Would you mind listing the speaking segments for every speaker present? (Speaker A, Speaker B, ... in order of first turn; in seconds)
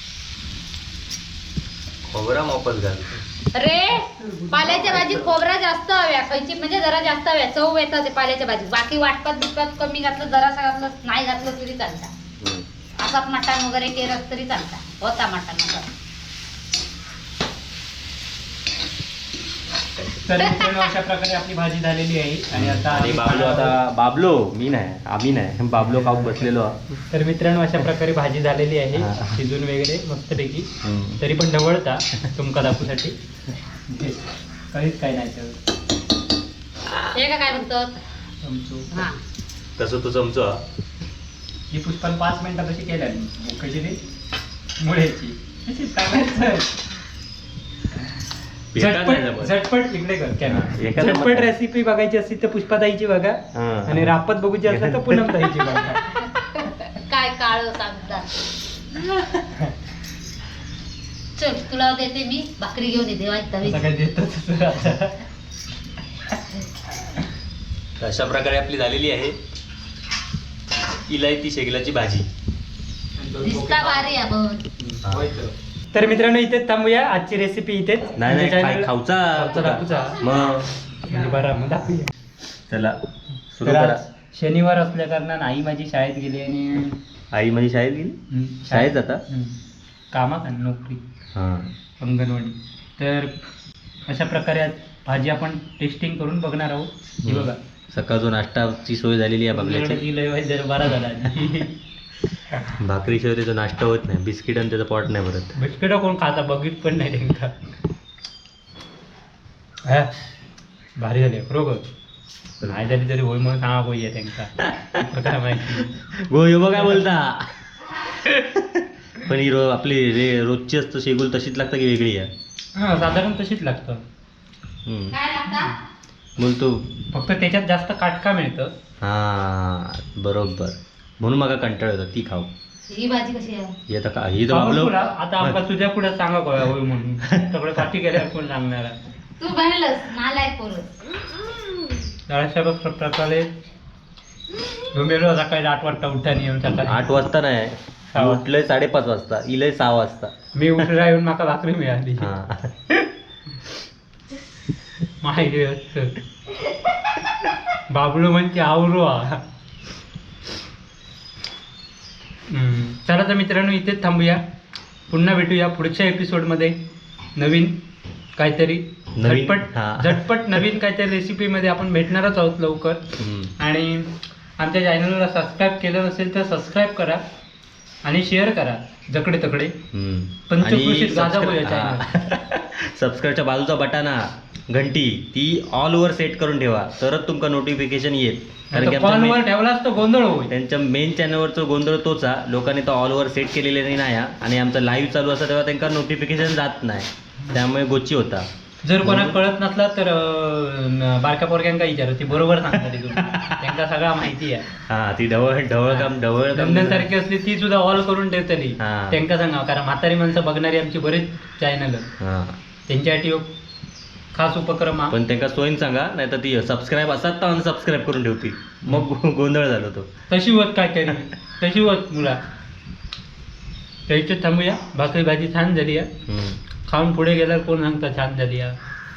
Speaker A: 2.0-3.2, 4.7-5.2, 12.4-12.7, 19.9-20.2, 22.5-26.8, 28.9-29.4, 30.8-31.2, 39.8-40.6, 48.7-49.5, 50.5-51.5, 53.5-55.8, 68.0-69.4, 71.1-72.3, 75.0-75.4, 78.2-80.8, 82.7-83.0, 83.5-84.0, 87.3-88.2, 88.7-89.2, 91.3-91.7, 97.2-100.0, 102.8-105.5, 114.6-115.2, 115.7-122.3, 124.8-125.2, 126.4-127.0, 129.0-132.5, 133.9-135.6, 137.2-137.5, 146.8-150.3, 152.2-152.7, 169.2-170.2, 173.2-173.5, 179.9-189.4, 190.5-198.5, 199.0-199.4, 203.2-203.7, 204.8-207.1, 208.8-209.2, 212.2-212.6, 215.1-220.1, 226.2-226.6
Speaker B: 3.5-12.1, 13.0-15.9, 20.4-20.9, 37.1-38.0, 38.9-39.2, 56.0-58.3, 61.4-63.9, 73.4-74.6, 79.7-80.3, 125.1-125.8, 132.9-133.8, 139.4-140.8
Speaker C: 3.9-4.6, 20.2-23.8, 25.9-26.3, 27.1-33.1, 33.9-35.6, 38.4-39.1, 41.7-44.0, 44.8-46.7, 48.7-56.2, 59.3-59.7, 63.6-65.2, 73.2-74.2, 74.8-80.2, 81.0-82.1, 83.6-87.0, 88.3-89.5, 90.1-91.0, 92.0-93.3, 94.1-97.6, 99.5-101.8, 105.6-107.5, 109.8-110.1, 111.0-111.8, 112.6-116.1, 116.7-117.0, 122.7-124.0, 125.5-125.7, 127.1-128.7, 134.5-139.0, 142.3-143.5, 144.9-147.1, 148.1-148.4, 150.5-152.3, 155.2-156.2, 157.7-159.4, 162.5-164.4, 165.1-166.8, 167.4-167.8, 168.4-173.0, 173.6-177.2, 178.0-179.8, 180.5-182.1, 188.7-190.5, 198.8-204.8, 205.9-212.1, 212.9-213.5, 214.3-215.2, 220.3-222.4, 224.1-226.1, 226.9-228.8